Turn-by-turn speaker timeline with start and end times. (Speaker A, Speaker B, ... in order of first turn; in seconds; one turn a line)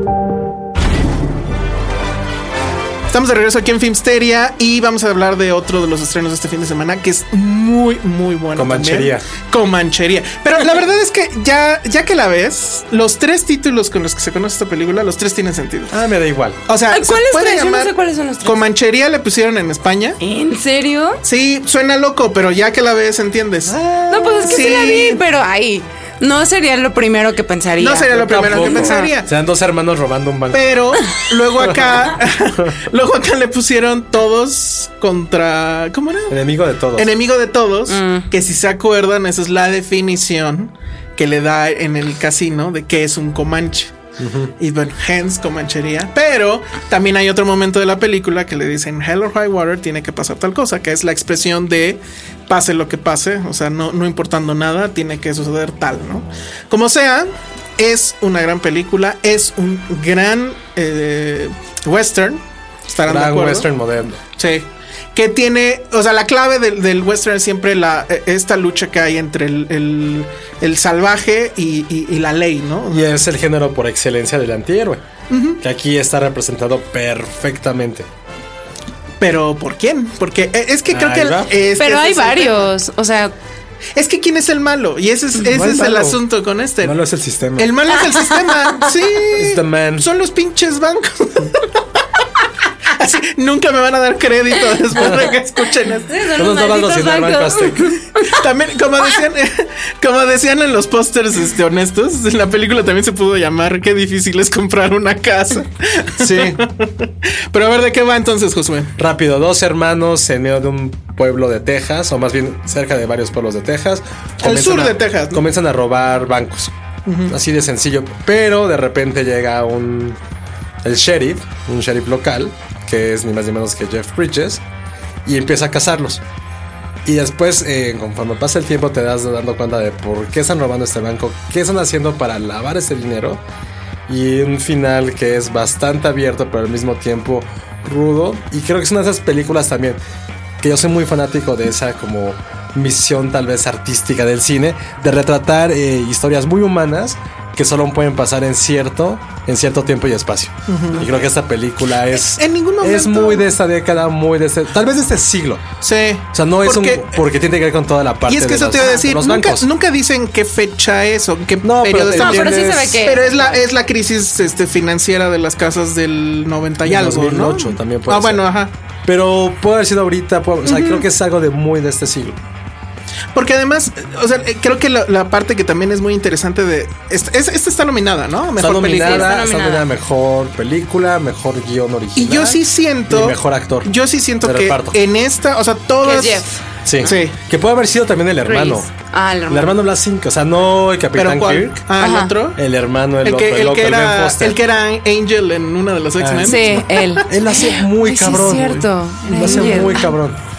Speaker A: 3.1-15.9
Speaker B: 8.6-9.3
Speaker B: 15.9-16.6
Speaker A: 16.7-20.2
Speaker C: 16.9-18.6
Speaker C: 20.2-21.2
Speaker A: 21.2-23.8
Speaker B: 23.7-24.6
Speaker C: 24.1-29.1
Speaker A: 24.5-25.2
Speaker A: 27.8-29.3
Speaker B: 28.2-30.8
Speaker A: 30.5-36.4
Speaker B: 31.6-31.9
Speaker B: 36.3-37.1
Speaker A: 37.0-43.9
Speaker C: 37.9-38.3
Speaker B: 44.2-44.5
Speaker A: 44.6-63.7
Speaker B: 63.0-64.2
Speaker A: 64.4-73.2
Speaker B: 72.9-75.0
Speaker A: 75.3-75.6
Speaker B: 75.6-78.1
Speaker A: 79.2-82.7
Speaker B: 80.9-81.6
Speaker C: 81.8-83.3
Speaker A: 84.0-87.0
Speaker B: 85.4-86.2
Speaker B: 86.8-87.7
Speaker A: 87.6-91.7
Speaker B: 89.3-90.1
Speaker A: 92.9-96.1
Speaker B: 95.0-95.2
Speaker C: 96.1-98.4
Speaker B: 96.4-97.9
Speaker A: 98.2-108.9
Speaker B: 106.2-106.6
Speaker B: 109.0-116.7
Speaker A: 114.4-115.4
Speaker A: 117.1-117.3
Speaker B: 117.3-120.2
Speaker B: 120.8-124.6
Speaker B: 125.2-126.2
Speaker B: 127.0-133.4
Speaker B: 134.1-140.0
Speaker B: 140.6-155.7
Speaker A: 150.7-151.1
Speaker A: 152.1-153.5
Speaker A: 155.8-157.2
Speaker B: 156.3-159.7
Speaker A: 158.3-168.7
Speaker C: 158.8-159.0
Speaker B: 161.6-163.0
Speaker C: 162.2-163.6
Speaker B: 166.8-168.5
Speaker B: 169.1-172.4
Speaker A: 170.7-171.1
Speaker A: 173.3-179.4
Speaker B: 178.6-183.9
Speaker C: 178.9-179.8
Speaker A: 182.2-186.4
Speaker B: 184.4-185.0
Speaker C: 186.0-187.2
Speaker B: 186.8-188.9
Speaker A: 187.0-187.4
Speaker C: 188.4-189.8
Speaker B: 189.5-191.8
Speaker A: 191.2-192.6
Speaker C: 192.0-192.3
Speaker B: 192.6-194.6
Speaker A: 193.2-197.4
Speaker B: 196.2-200.4
Speaker C: 196.4-200.1
Speaker A: 199.2-200.1